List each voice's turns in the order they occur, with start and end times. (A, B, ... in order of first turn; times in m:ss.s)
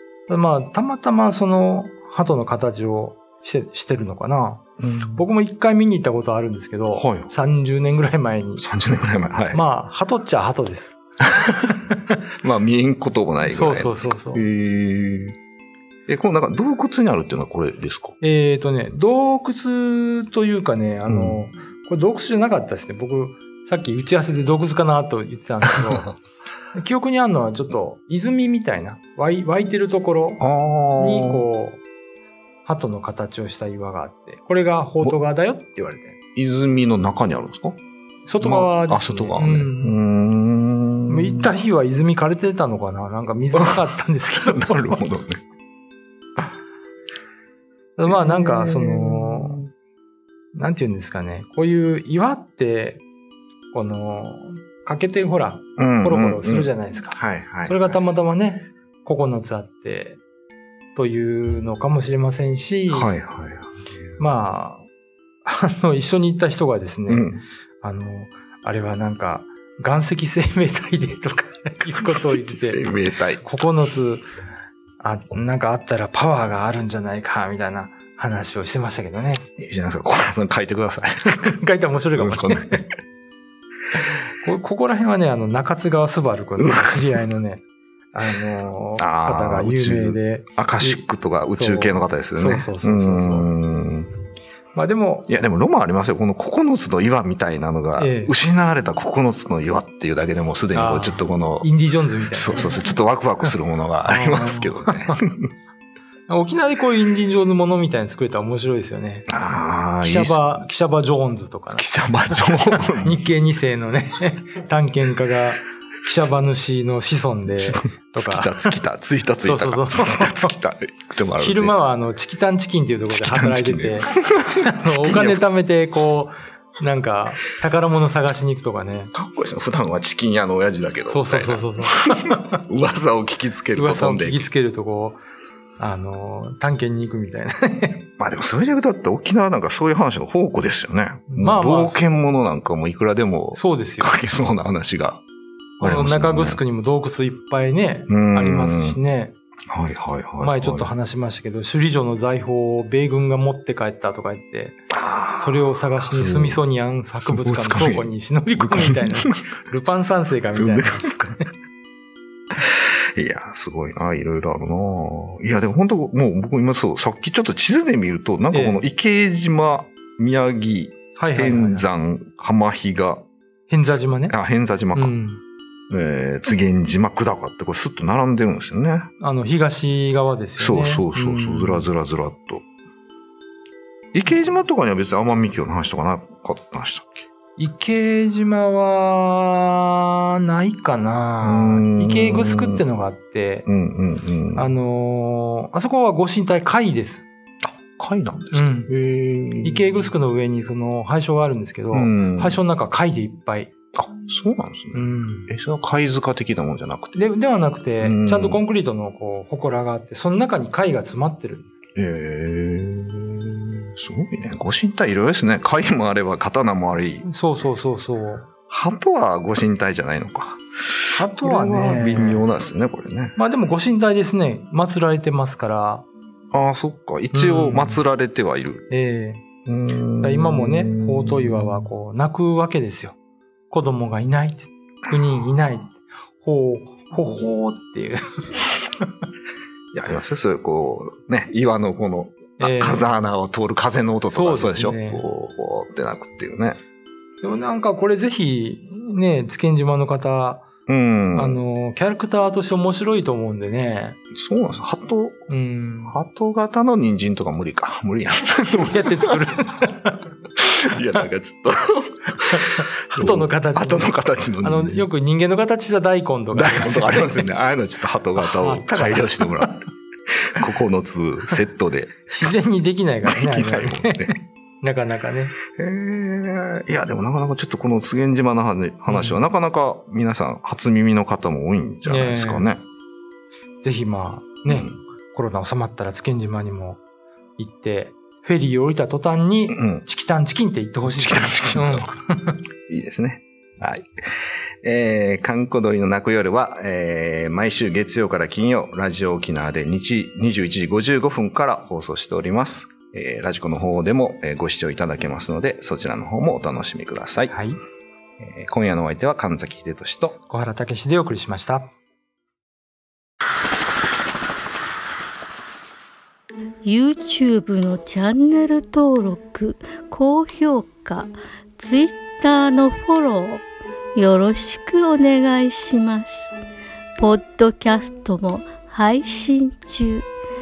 0:00.3-0:04.6 A
0:04.8-0:05.2 B
0:05.1-0:08.6 A
0:06.9-0:07.3 B
0:08.6-0:09.6 B
0:09.5-0:11.0 A
0:12.4-0:15.4 B
0:13.4-0:14.4 A
0:16.1-0:18.1 B
0:18.2-0:26.2 A
0:21.1-0:21.4 B
0:26.7-0:30.4 A
0:30.4-0:31.5 B
0:31.0-0:31.8 A
0:32.6-0:36.2 A
0:36.4-0:37.8 B
0:38.2-0:40.0 A
0:38.4-0:41.5 B
0:41.1-0:45.0 A
0:43.5-0:45.4 B
0:48.0-0:49.6 A
0:48.1-0:49.7 B
0:50.5-0:53.0 A
0:53.7-1:00.2 A
0:55.8-0:58.0 B
1:00.9-1:03.1 A
1:02.9-1:04.0 B
1:04.2-1:04.9 A
1:05.4-1:12.9 A
1:07.1-1:07.4 B
1:11.9-1:13.4 B
1:13.4-1:14.2 A
1:15.0-1:19.4 A
1:19.6-1:21.5 B
1:21.3-1:22.8 A
1:22.1-1:22.8 B
1:24.4-1:33.5 A
1:26.6-1:27.2 B
1:29.0-1:34.1 B
1:34.7-1:35.3 A
1:35.3-1:41.7 B
1:38.0-1:38.3 A
1:40.7-1:42.8 A
1:42.3-1:45.4 B
1:44.0-1:45.2 A
1:46.3-1:49.3 A
1:49.3-1:50.5 B
1:50.0-1:58.8 A
1:51.7-1:53.3 B
1:57.5-2:01.7 B
1:59.4-2:00.5 A
2:01.4-2:09.1 A
2:03.1-2:05.4 B
2:09.1-2:14.5 B
2:11.1-2:12.6 A
2:13.7-2:15.2 A
2:15.8-2:18.1 A
2:18.2-2:25.2 B
2:21.3-2:22.0 A
2:23.5-2:24.2 A
2:25.8-2:26.6 B
2:25.8-2:29.3 A
2:28.1-2:29.0 B
2:29.7-2:30.9 B
2:30.4-2:34.8 A
2:34.9-2:36.6 B
2:35.4-2:41.5 A
2:37.2-2:39.4 B
2:40.5-2:41.2 B
2:42.6-2:53.2 B
2:48.5-2:48.8 A
2:51.2-2:51.8 A
2:53.7-2:54.3 A
2:53.9-2:55.1 B
2:54.9-2:55.4 A
2:55.9-2:59.1 B
2:59.2-3:01.9 A
3:00.6-3:02.6 B
3:04.1-3:07.3 B
3:07.6-3:13.7 A
3:11.4-3:12.8 B
3:13.6-3:14.7 B
3:14.5-3:17.3 A
3:17.6-3:20.1 B
3:18.5-3:18.9 A
3:19.6-3:23.7 A
3:21.9-3:22.6 B
3:23.9-3:27.2 B
3:24.9-3:25.5 A
3:27.2-3:31.8 A
3:28.0-3:28.6 B
3:31.9-3:37.2 B
3:37.2-3:38.5 A
3:38.7-3:43.4 B
3:41.2-3:42.5 A
3:43.4-3:46.0 A
3:46.5-3:48.8 B
3:47.3-3:48.0 A
3:48.9-3:49.4 A
3:49.6-3:51.9 B
3:50.2-3:53.2 A
3:53.7-3:58.6 A
3:59.9-4:06.8 B
4:02.6-4:03.2 A
4:04.3-4:05.2 A
4:07.4-4:10.7 A
4:10.9-4:11.6 B
4:11.3-4:14.2 A
4:14.3-4:15.4 B
4:15.5-4:16.2 A
4:16.0-4:19.4 B
4:18.8-4:20.2 A
4:20.6-4:25.1 B
4:22.5-4:27.4 A
4:26.5-4:32.5 B
4:28.4-4:29.7 A
4:32.3-4:35.5 A
4:33.2-4:34.4 B
4:35.7-4:42.8 B
4:39.1-4:39.4 A
4:42.0-4:42.7 A
4:43.8-4:47.0 A
4:44.6-4:45.0 B
4:47.6-4:52.6 A
4:49.7-4:50.0 B
4:51.0-4:52.1 B
4:52.9-5:07.5 B
5:07.5-5:07.8 A
5:08.4-5:10.4 B
5:10.4-5:11.9 A
5:16.8-5:23.6 C
5:24.2-5:26.3 C
5:27.2-5:30.2 C